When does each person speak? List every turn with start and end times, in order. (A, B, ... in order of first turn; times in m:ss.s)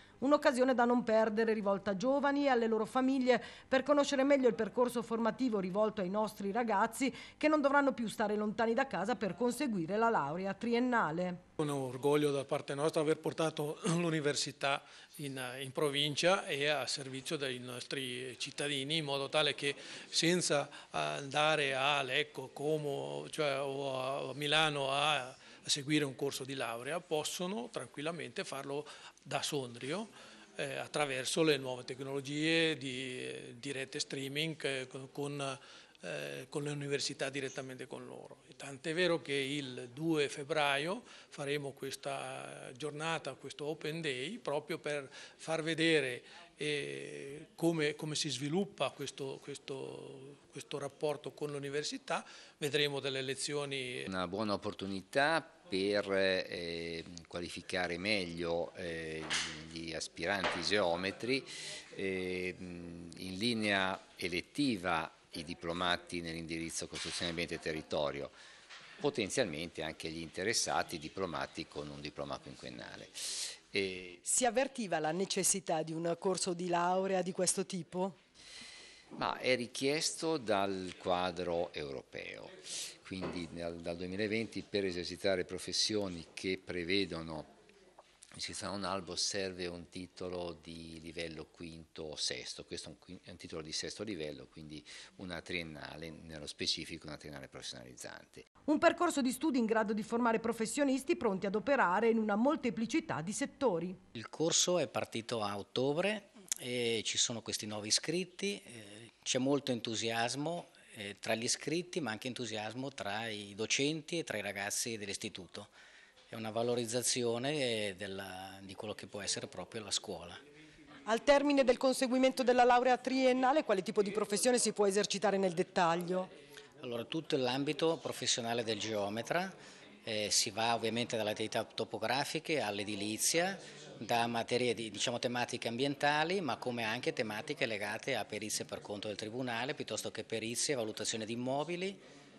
0:00.2-0:11.4 A
0:11.6-0:54.1 B
0:54.1-1:08.3 C
1:09.0-1:14.2 C
1:14.2-1:18.2 A
1:19.2-1:22.5 C
1:23.0-1:27.5 C
1:28.4-1:38.4 C
1:38.7-1:44.0 A
1:44.1-1:55.7 D
1:56.3-2:00.4 D
2:01.1-2:06.3 A
2:06.8-2:22.0 D